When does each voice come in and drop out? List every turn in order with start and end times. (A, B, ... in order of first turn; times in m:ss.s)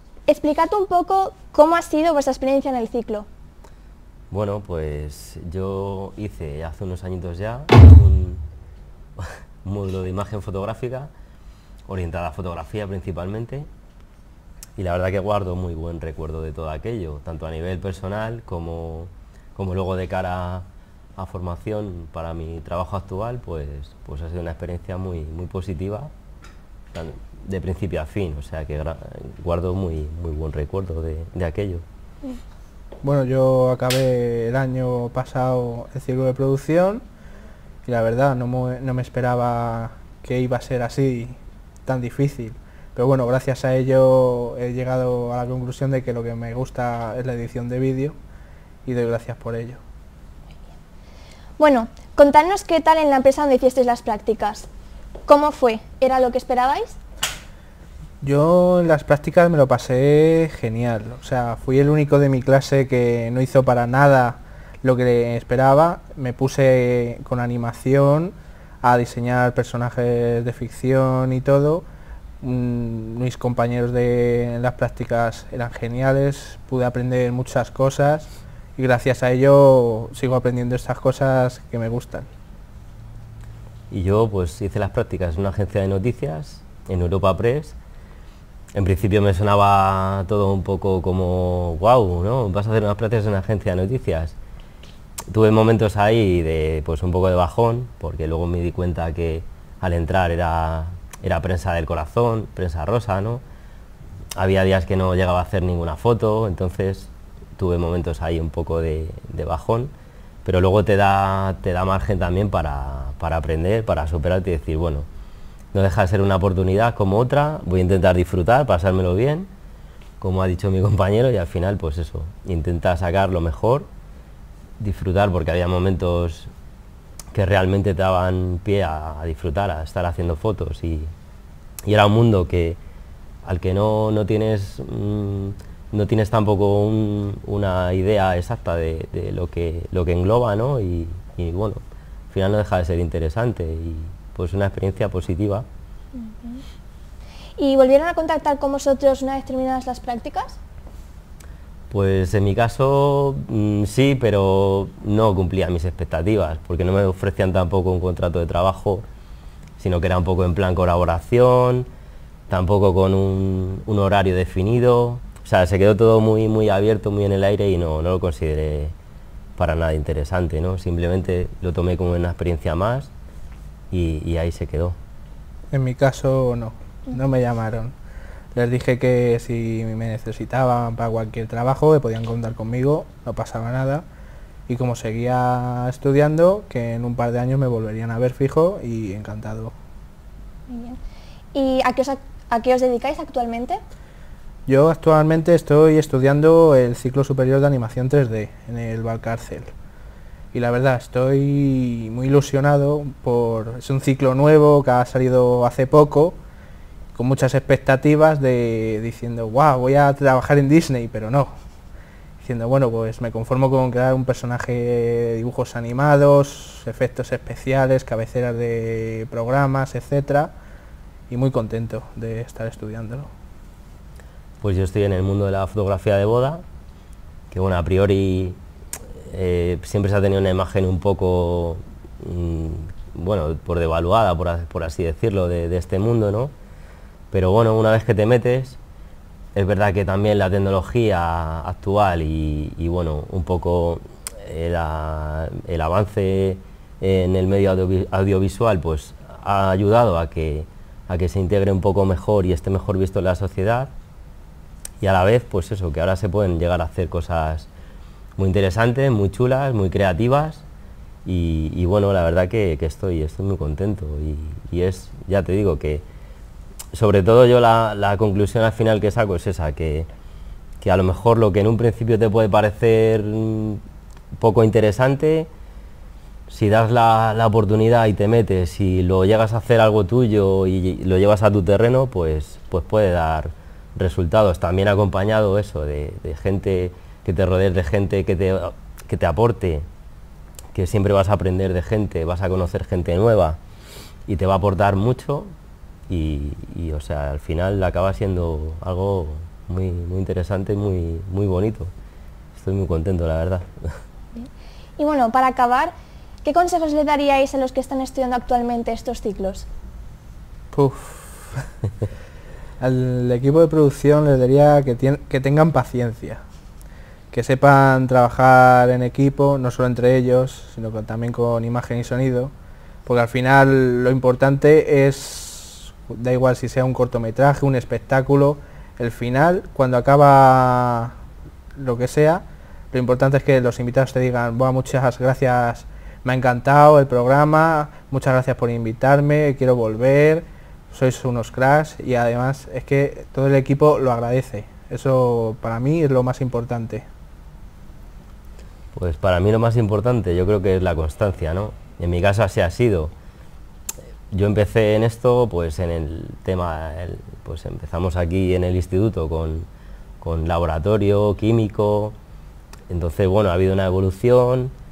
0:00.3-0:03.3 A
0:04.3-0:08.4 B
0:09.2-0:11.1 B
0:11.9-0:13.7 B
0:14.8-0:20.6 B
0:21.2-0:26.1 B
0:26.9-0:31.8 B
0:33.0-0:37.0 C
0:37.8-0:48.2 C
0:48.8-0:49.8 C
0:51.6-0:54.7 A
0:55.3-0:57.0 A
0:58.2-1:11.9 C
1:12.4-1:22.3 C
1:23.9-1:27.8 B
1:28.7-1:34.4 B
1:35.3-1:43.4 B
1:44.4-1:49.9 B
1:50.4-1:55.1 B
1:55.7-1:59.5 B
2:00.2-2:03.9 B
2:04.8-2:06.5 B
2:07.3-2:11.1 B
2:11.8-2:12.8 B
2:13.4-2:21.8 B
2:22.3-2:25.6 B
2:26.2-2:26.6 A
2:27.6-2:30.6 A
2:31.9-2:39.0 B
2:39.8-2:41.9 B
2:42.5-2:48.9 B
2:49.6-2:53.1 B
2:53.9-2:55.0 B
2:55.7-2:57.9 C
2:58.6-3:04.0 C
3:04.7-3:09.7 C
3:10.7-3:11.0 A
3:11.5-3:13.8 A
3:14.7-3:19.7 C
3:20.5-3:26.4 C
3:27.2-3:31.5 C
3:32.4-3:40.5 C
3:41.3-3:43.3 C
3:44.6-3:46.6 B
3:47.5-3:48.6 B
3:49.2-3:56.5 B
3:57.3-3:58.8 B
3:59.6-4:13.9 B
4:15.0-4:17.7 B
4:18.4-4:20.6 B
4:21.2-4:26.0 B
4:26.9-4:30.1 B
4:30.8-4:33.8 B
4:34.4-4:35.5 B
4:36.5-4:49.8 B
4:50.7-4:53.6 B
4:54.3-4:55.5 B
4:56.1-5:01.9 B
5:02.6-5:03.9 B
5:05.0-5:05.9 A
5:06.4-5:09.7 A
5:10.7-5:11.6 C
5:12.8-5:16.4 C
5:17.3-5:22.5 C
5:23.1-5:31.1 C
5:31.8-5:47.1 C
5:49.0-5:53.1 B
5:54.3-5:59.7 B
6:00.2-6:02.2 B
6:02.9-6:04.7 B